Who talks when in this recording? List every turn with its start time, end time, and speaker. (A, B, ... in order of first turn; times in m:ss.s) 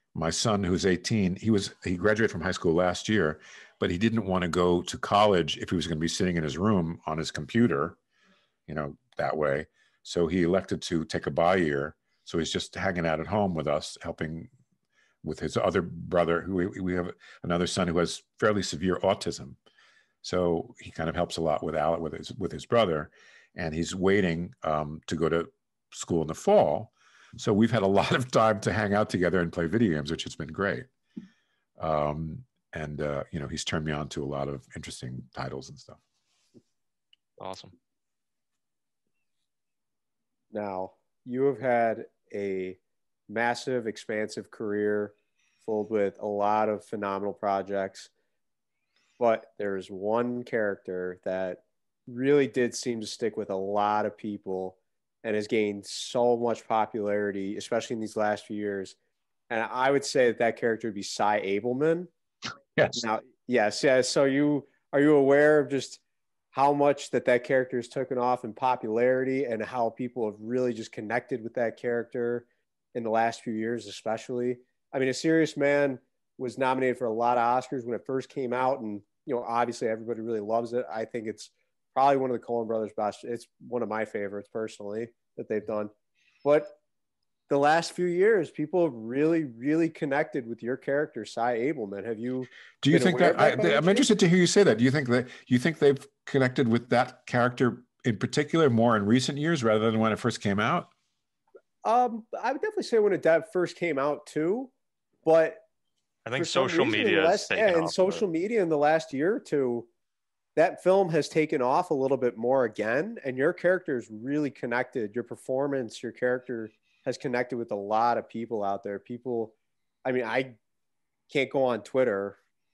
0:00.1-0:08.0 A
0:08.7-0:14.5 A
0:15.2-0:19.6 A
0:20.2-0:30.9 A
0:31.8-0:36.0 A
0:37.4-0:37.7 B
0:40.5-0:48.1 C
0:49.2-0:59.0 C
0:59.5-1:02.1 C
1:02.8-1:03.0 A
1:02.9-1:06.0 C
1:06.5-1:25.9 C
1:26.4-1:26.8 C
1:27.5-1:34.1 C
1:32.8-1:40.9 A
1:41.8-1:44.7 C
1:45.2-1:45.6 C
1:46.2-1:48.2 B
1:46.4-1:49.9 C
1:50.6-2:00.6 C
2:01.3-2:02.4 C